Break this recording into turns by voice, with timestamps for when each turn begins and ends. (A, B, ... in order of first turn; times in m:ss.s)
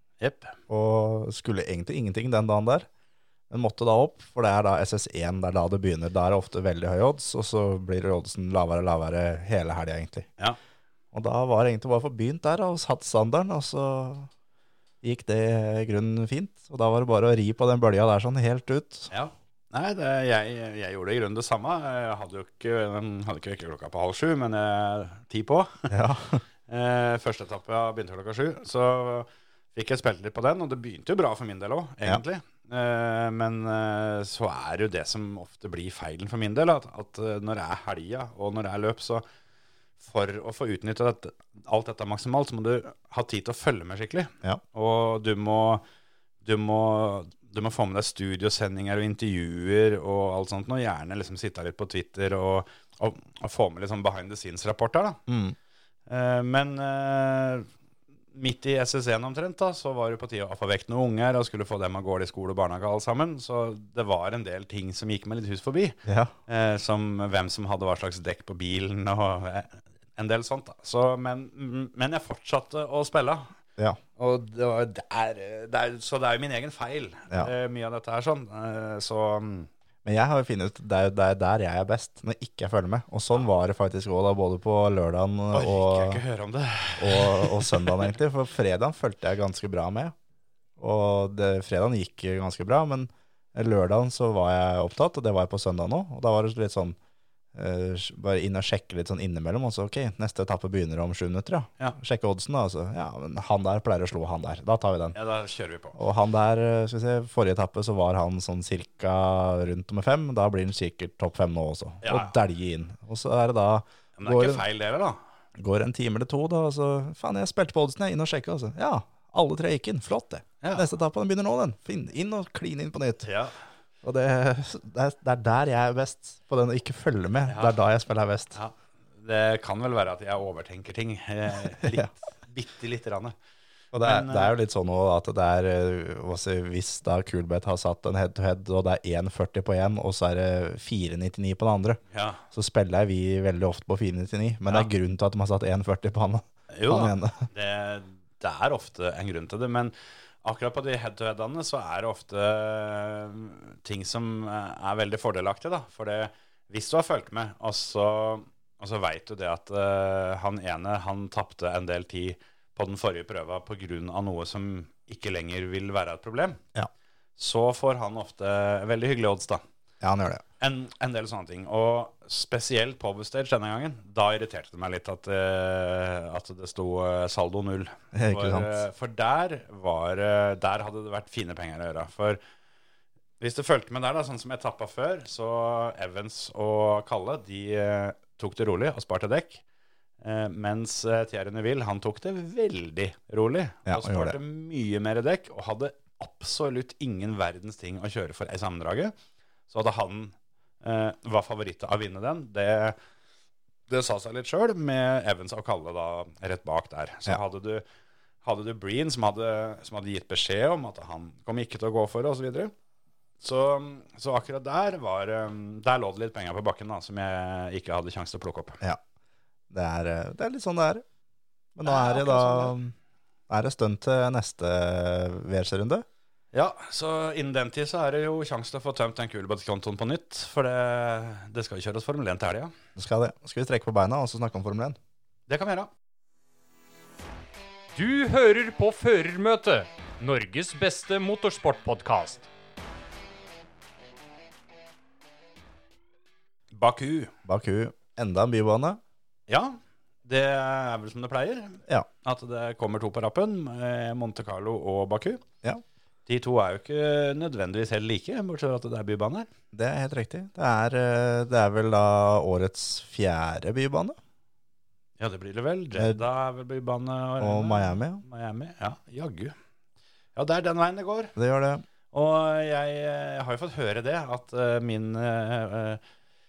0:00.2-0:00.6 A
0:00.7-0:02.9 B
0:03.5-0:10.3 B
0:11.1-0:14.3 B
0:15.0-0:19.1 B
0:19.1-0:25.9 A
0:25.9-0:26.4 B
0:26.7-0:39.2 A
0:40.0-0:45.8 A
0:46.4-0:55.2 A
0:55.3-0:55.6 B
0:56.1-0:57.7 A
0:58.3-1:13.5 A
1:06.0-1:06.3 B
1:14.2-1:19.7 A
1:20.0-1:26.2 B
1:25.5-1:28.1 A
1:27.0-1:30.1 B
1:30.8-1:37.0 B
1:37.5-1:45.2 B
1:45.1-1:46.0 A
1:45.9-1:54.6 B
1:52.0-1:52.3 A
1:54.2-1:55.2 A
1:55.6-2:03.3 B
2:00.6-2:00.9 A
2:03.2-2:03.5 A
2:04.0-2:08.6 B
2:07.5-2:07.7 A
2:08.5-2:13.3 A
2:11.8-2:12.1 B
2:13.9-2:27.4 B
2:14.0-2:14.5 A
2:22.1-2:22.4 A
2:26.7-2:46.6 A
2:47.4-2:49.6 A
2:50.0-2:50.4 B
2:50.6-3:02.4 A
2:58.1-2:58.8 B
3:03.4-3:09.6 A
3:10.2-3:19.1 A
3:13.8-3:14.4 B
3:19.7-3:23.0 A
3:23.9-3:27.8 A
3:28.4-3:32.7 A
3:33.4-3:38.8 A
3:39.7-3:41.0 B
3:41.8-3:42.9 B
3:41.8-3:42.7 A
3:43.5-3:46.0 B
3:46.5-3:52.7 A
3:53.0-3:55.0 B
3:55.5-3:55.9 A
3:57.9-4:02.5 C
4:06.7-4:07.3 A
4:07.4-4:09.0 B
4:09.5-4:15.4 A
4:16.3-4:19.5 A
4:19.7-4:24.2 B
4:25.2-4:29.5 A
4:26.0-4:26.2 B
4:27.4-4:28.2 B
4:30.4-4:31.3 A
4:31.4-4:31.8 B
4:32.1-4:36.0 A